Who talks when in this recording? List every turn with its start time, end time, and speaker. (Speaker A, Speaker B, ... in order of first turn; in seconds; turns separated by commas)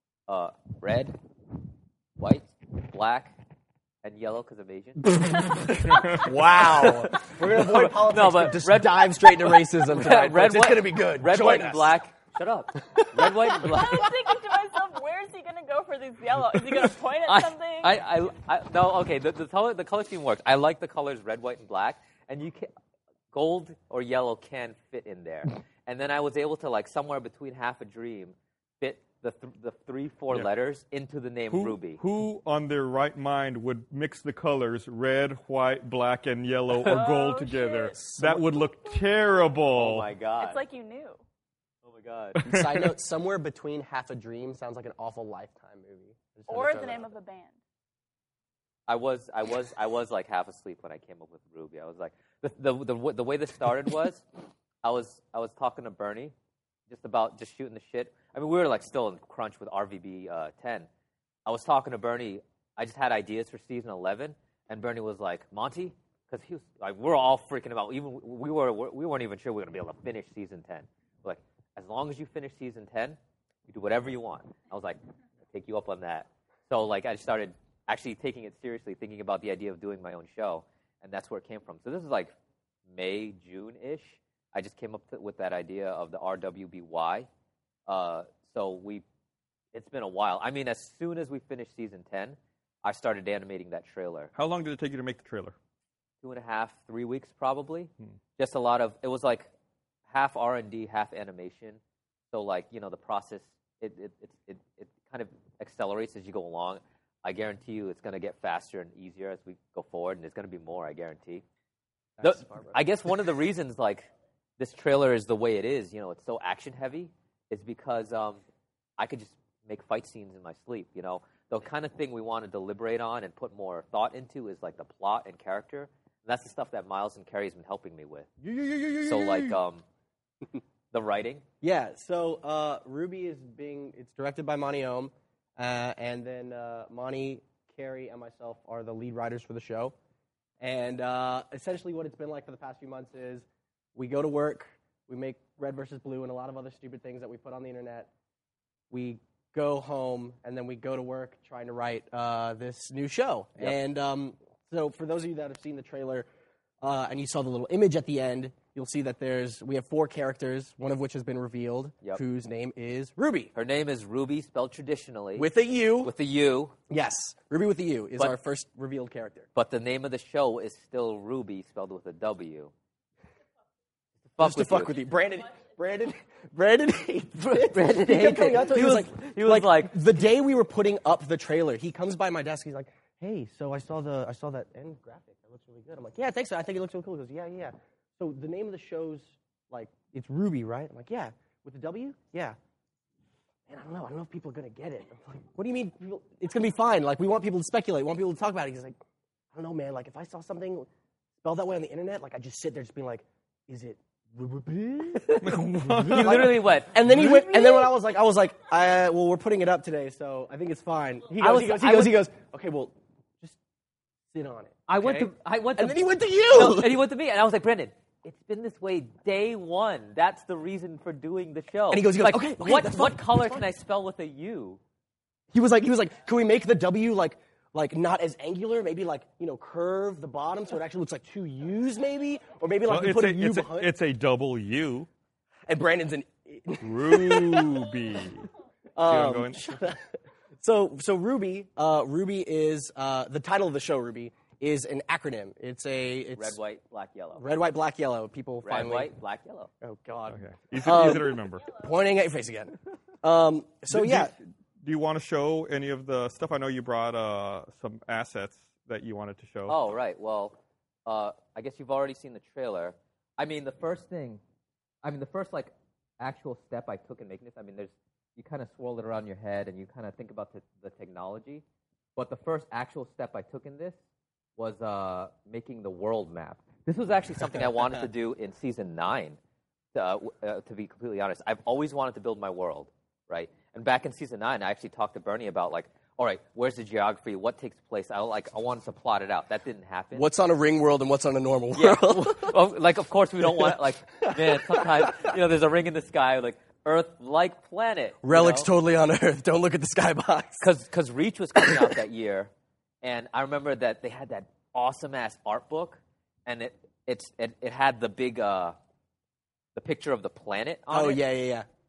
Speaker A: 0.3-1.2, Speaker A: 2.2-3.4, Speaker A: 4.0-5.2, Speaker B: 6.0-6.2, Speaker C: 6.2-12.0, Speaker A: 6.6-14.2, Speaker C: 13.0-13.3, Speaker D: 13.6-18.0, Speaker A: 17.2-22.7, Speaker A: 23.3-32.0, Speaker B: 31.5-40.1, Speaker D: 36.8-38.1, Speaker C: 38.0-38.4, Speaker A: 39.8-40.6, Speaker D: 40.4-41.2, Speaker A: 41.9-42.4, Speaker B: 42.4-42.9, Speaker C: 42.5-47.1, Speaker D: 46.5-47.6, Speaker A: 48.9-54.2, Speaker A: 54.8-56.3, Speaker A: 56.9-60.9, Speaker A: 61.5-75.0, Speaker A: 75.5-82.3, Speaker A: 82.9-87.3, Speaker A: 87.9-89.0, Speaker A: 89.7-94.3, Speaker B: 94.3-95.6, Speaker A: 96.2-99.5, Speaker A: 100.1-101.8, Speaker A: 102.3-111.4, Speaker C: 112.2-112.8, Speaker A: 112.2-118.4, Speaker A: 119.0-128.3, Speaker C: 128.4-129.6, Speaker A: 129.0-129.8, Speaker A: 130.9-131.4, Speaker C: 131.6-139.9, Speaker C: 140.6-148.1, Speaker C: 148.9-156.3, Speaker C: 156.8-163.5, Speaker A: 163.5-166.8, Speaker C: 165.4-166.1, Speaker C: 166.9-169.5, Speaker A: 169.6-172.7, Speaker A: 174.3-175.0, Speaker C: 174.4-192.6, Speaker A: 177.4-180.0, Speaker C: 193.7-199.0, Speaker C: 199.5-200.9, Speaker C: 201.4-213.6, Speaker B: 205.4-207.6, Speaker A: 206.1-207.0, Speaker A: 211.4-212.3, Speaker C: 214.3-217.0, Speaker A: 214.9-224.8, Speaker C: 221.9-223.6, Speaker C: 225.5-233.9, Speaker B: 232.9-235.1, Speaker C: 235.7-237.9, Speaker B: 236.8-238.5, Speaker C: 239.0-246.6, Speaker B: 239.0-239.7, Speaker A: 246.4-247.5, Speaker C: 247.4-249.1, Speaker A: 248.6-249.7, Speaker C: 249.8-254.3, Speaker B: 250.3-251.7, Speaker B: 253.9-259.8, Speaker A: 259.7-264.4, Speaker A: 265.0-271.6, Speaker A: 272.2-274.0, Speaker A: 274.6-279.4, Speaker A: 279.9-290.3, Speaker C: 290.1-292.6, Speaker A: 291.7-298.7, Speaker C: 293.4-295.3, Speaker C: 298.2-300.7, Speaker A: 300.6-302.5, Speaker C: 301.6-302.0, Speaker A: 303.0-308.8, Speaker A: 309.8-311.2, Speaker C: 310.9-311.7